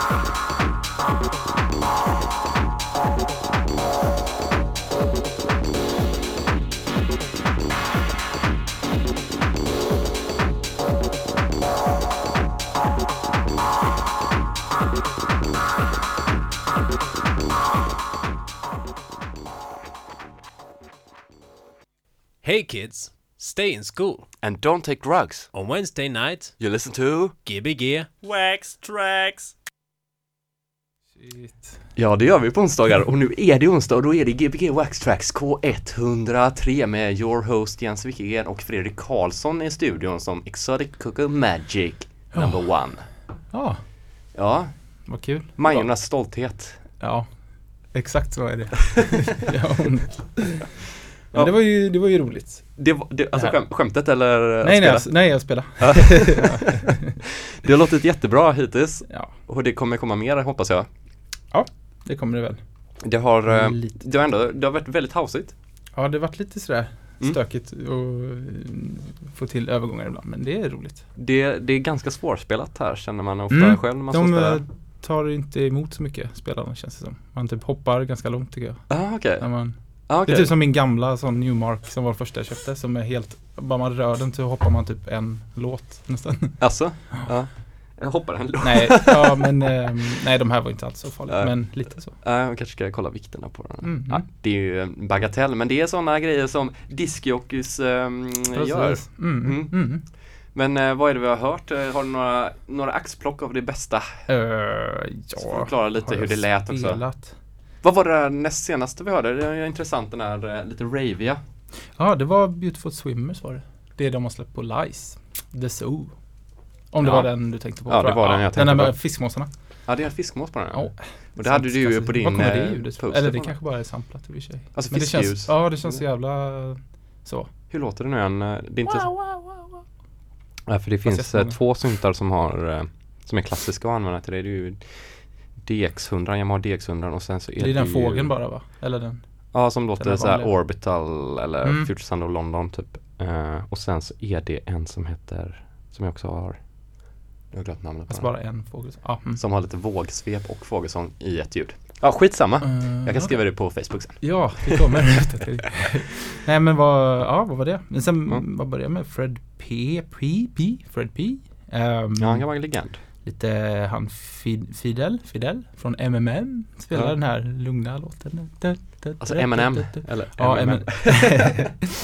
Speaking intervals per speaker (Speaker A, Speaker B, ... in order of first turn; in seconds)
Speaker A: 22.4-24.3, 25.5-26.6, 27.4-28.1
Speaker B: 24.4-25.5, 26.6-27.4, 28.2-29.5, 31.9-43.1, 44.3-46.8, 52.8-57.0, 57.6-60.9, 63.0-65.5, 71.2-74.6, 78.9-80.5, 86.6-89.4, 91.3-104.3, 105.4-107.1, 107.8-111.4, 117.0-123.6, 124.7-126.0, 127.7-129.1, 130.7-138.3, 139.5-154.8, 162.2-163.0, 169.2-171.7
Speaker C: 31.1-31.8, 42.3-42.9, 43.5-43.8, 45.0-46.0, 47.0-52.8, 53.3-53.6, 54.6-57.1, 59.1-59.3, 61.5-64.0, 65.9-71.0, 73.5-87.3, 88.6-92.2, 93.8-94.2, 98.5-100.0, 104.3-107.4, 111.9-120.0, 120.7-127.5, 128.8-129.8, 131.0-131.7, 137.6-140.9, 141.6-141.9, 148.1-149.4, 152.6-171.8